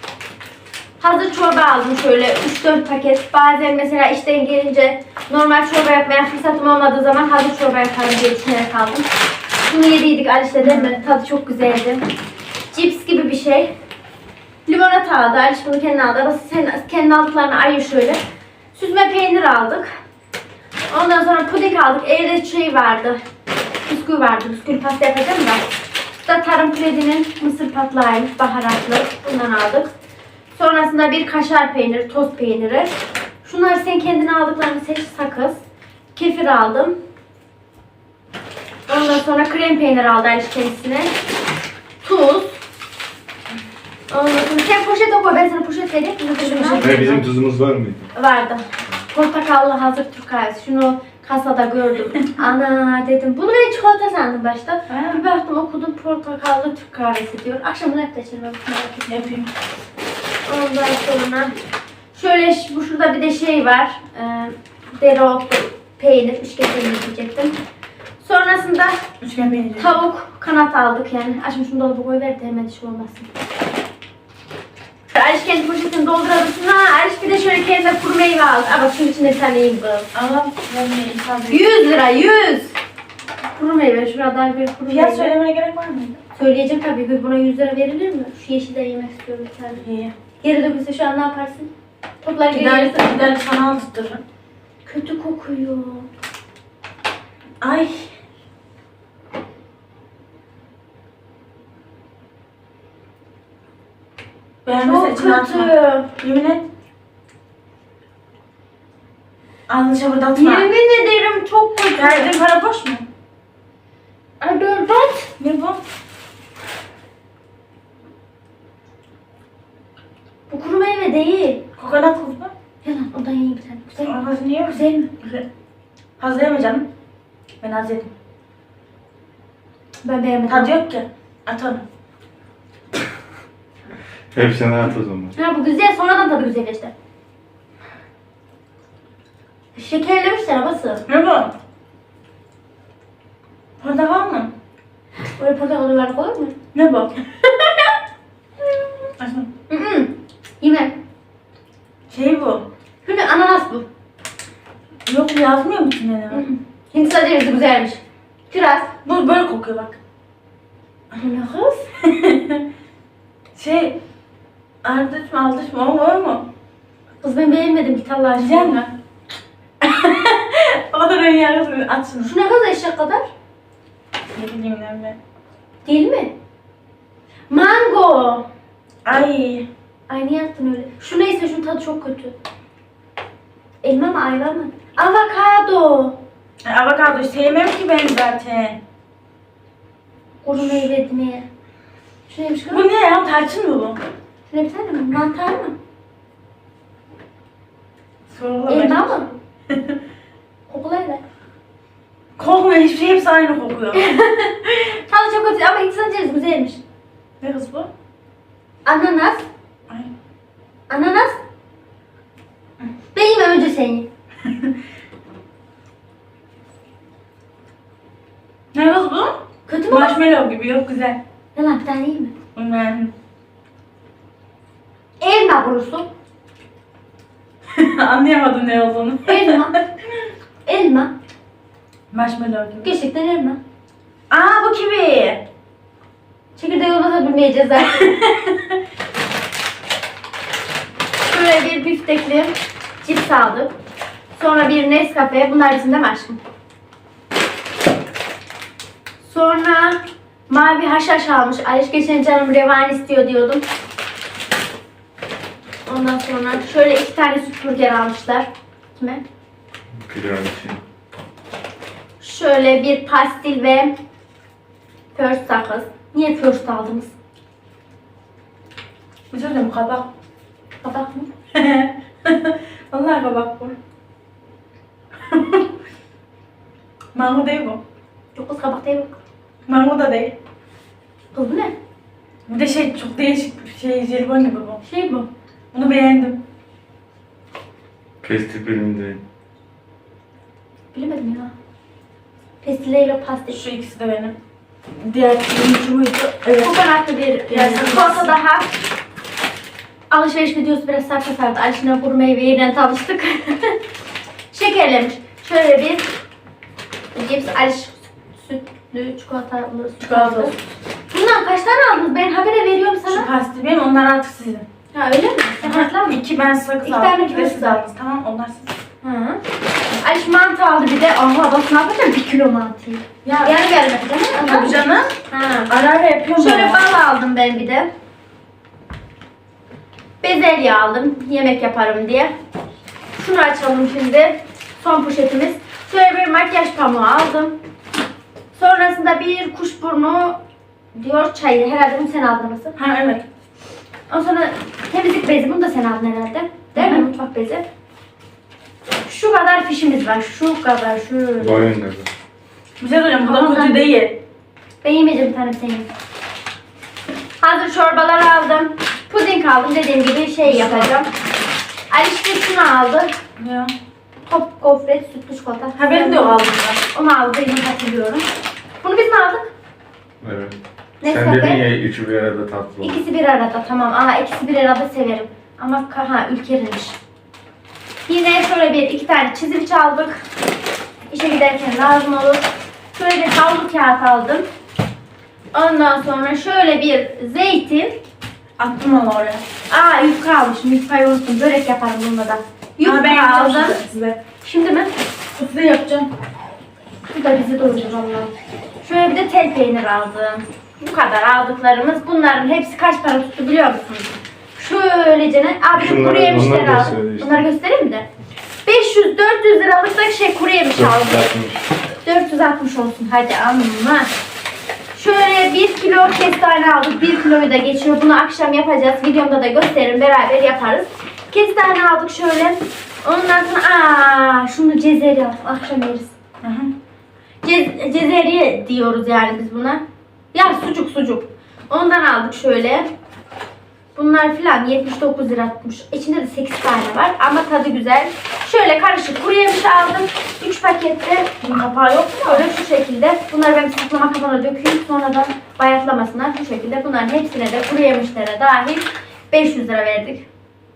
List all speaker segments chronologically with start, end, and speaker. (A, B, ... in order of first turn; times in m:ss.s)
0:01.0-0:09.1 A
0:09.6-0:12.0 A
0:12.7-0:13.7 A
0:14.7-0:18.2 A
0:18.7-0:19.9 A
0:20.9-0:23.2 A
0:23.9-0:25.6 A
0:26.2-0:29.9 A
0:30.5-0:37.0 A
0:38.9-0:41.1 A
0:42.0-0:42.6 A
0:44.1-0:47.1 A
0:46.4-0:47.2 B
0:46.8-0:48.1 C
0:48.1-0:59.3 A
0:54.9-0:55.2 B
0:59.1-0:59.5 B
1:00.4-1:01.5 A
1:02.1-1:07.6 A
1:08.2-1:09.0 A
1:09.2-1:09.9 B
1:09.7-1:13.3 A
1:15.1-1:20.1 A
1:20.1-1:21.6 B
1:21.5-1:22.8 A
1:23.5-1:25.3 A
1:24.9-1:26.2 B
1:26.3-1:29.8 A
1:29.8-1:30.1 B
1:30.4-1:31.7 A
1:32.2-1:33.3 A
1:32.5-1:34.2 B
1:34.8-1:36.1 A
1:37.6-1:38.1 B
1:44.6-1:46.6 B
1:44.8-1:46.1 A
1:49.7-1:50.7 B
1:50.4-1:52.3 A
1:52.0-1:53.0 B
1:54.4-1:55.3 A
1:55.4-1:55.8 B
2:00.5-2:01.6 A
2:01.8-2:02.5 B
2:02.8-2:05.2 A
2:04.0-2:05.4 B
2:06.2-2:06.8 B
2:07.6-2:08.1 B
2:10.0-2:10.8 A
2:10.5-2:11.8 B
2:14.3-2:15.3 C
2:15.4-2:16.9 A
2:19.7-2:21.0 A
2:21.1-2:21.5 B
2:23.8-2:24.5 B
2:25.3-2:26.5 A
2:26.7-2:27.1 B
2:29.2-2:29.5 B
2:29.7-2:31.0 A
2:32.1-2:32.6 B
2:33.0-2:33.8 A
2:35.0-2:36.4 B
2:36.3-2:38.9 A
2:39.0-2:40.0 B
2:41.2-2:41.9 A
2:42.0-2:42.6 B
2:43.5-2:44.0 B
2:44.8-2:46.5 B
2:47.2-2:48.9 A
2:48.4-2:48.9 B
2:49.8-2:52.3 B
2:52.2-2:53.3 A
2:54.3-2:55.2 B
2:55.8-2:56.3 A
2:57.5-2:58.5 A
2:59.0-2:59.7 B
3:00.1-3:02.4 A
3:03.8-3:06.2 A
3:06.6-3:08.8 B
3:10.4-3:11.5 A
3:12.3-3:12.8 A
3:12.7-3:14.0 B
3:14.5-3:15.7 A
3:18.3-3:20.0 B
3:18.7-3:19.4 A
3:20.7-3:21.2 A
3:22.4-3:24.1 B
3:23.9-3:26.8 A
3:27.4-3:27.9 B
3:28.8-3:29.5 A
3:30.9-3:31.4 A
3:33.1-3:34.1 A
3:34.4-3:34.7 B
3:38.7-3:41.2 B
3:39.7-3:40.2 A
3:41.5-3:42.3 A
3:42.5-3:43.1 B
3:45.2-3:46.1 A
3:47.7-3:49.8 B
3:49.2-3:49.7 A
3:50.6-3:51.1 A
3:52.1-3:52.9 B
3:52.8-3:53.6 A
3:54.3-3:55.4 B
3:56.6-3:58.1 A
3:57.9-3:58.7 B
4:01.3-4:03.7 A
4:04.4-4:06.4 A
4:09.2-4:13.6 A
4:15.9-4:19.2 A
4:19.9-4:20.8 C
4:22.2-4:23.9 A
4:25.1-4:27.1 A
4:29.3-4:30.1 B
4:30.8-4:31.3 A
4:31.5-4:33.7 B
4:35.3-4:35.7 B
4:37.1-4:37.8 B
4:38.3-4:39.2 A
4:39.7-4:40.3 B
4:41.3-4:41.7 A
4:42.5-4:44.8 B
4:44.8-4:45.3 A
4:45.7-4:46.4 B
4:48.2-4:49.2 C
4:50.9-4:51.5 A
4:52.6-4:53.6 A
4:53.5-4:54.4 B
4:55.0-4:56.8 B
4:56.6-4:58.8 A
4:57.5-4:58.3 B
5:00.1-5:03.8 A
5:04.5-5:06.1 A
5:07.1-5:10.5 A
5:10.0-5:10.6 B
5:11.1-5:13.3 A
5:13.1-5:14.6 B
5:14.9-5:16.2 A
5:15.6-5:18.7 B
5:16.8-5:17.8 A
5:19.0-5:19.4 A
5:20.0-5:25.7 A
5:23.2-5:23.6 B
5:24.3-5:25.2 B
5:25.7-5:26.8 B
5:26.4-5:27.9 A
5:30.2-5:32.3 A
5:33.2-5:37.6 A
5:38.5-5:40.4 A
5:40.9-5:42.8 A
5:42.8-5:43.2 B
5:44.1-5:47.6 A
5:46.8-5:47.1 B
5:49.0-5:51.7 A
5:51.4-5:52.1 C
5:52.8-5:54.2 B
5:53.2-5:53.8 A
5:54.8-5:55.9 A
5:57.4-6:01.1 A
6:00.4-6:00.9 B
6:01.9-6:03.1 A
6:03.4-6:03.7 B
6:04.3-6:08.3 A
6:05.8-6:06.8 B
6:08.8-6:09.5 A
6:10.2-6:13.0 C
6:11.0-6:11.6 A
6:12.8-6:17.0 A
6:18.1-6:20.2 A
6:21.1-6:24.5 A
6:25.5-6:28.0 A
6:28.6-6:29.4 B
6:29.7-6:36.0 A
6:32.8-6:33.9 B
6:35.4-6:36.0 B
6:37.1-6:48.1 A
6:45.7-6:47.4 C
6:48.6-6:51.2 A
6:50.7-6:51.6 C
6:52.0-6:54.1 A
6:54.9-7:06.1 A
7:06.4-7:06.7 B
7:07.4-7:12.9 A
7:13.9-7:21.3 A
7:21.4-7:22.4 B
7:22.2-7:30.2 A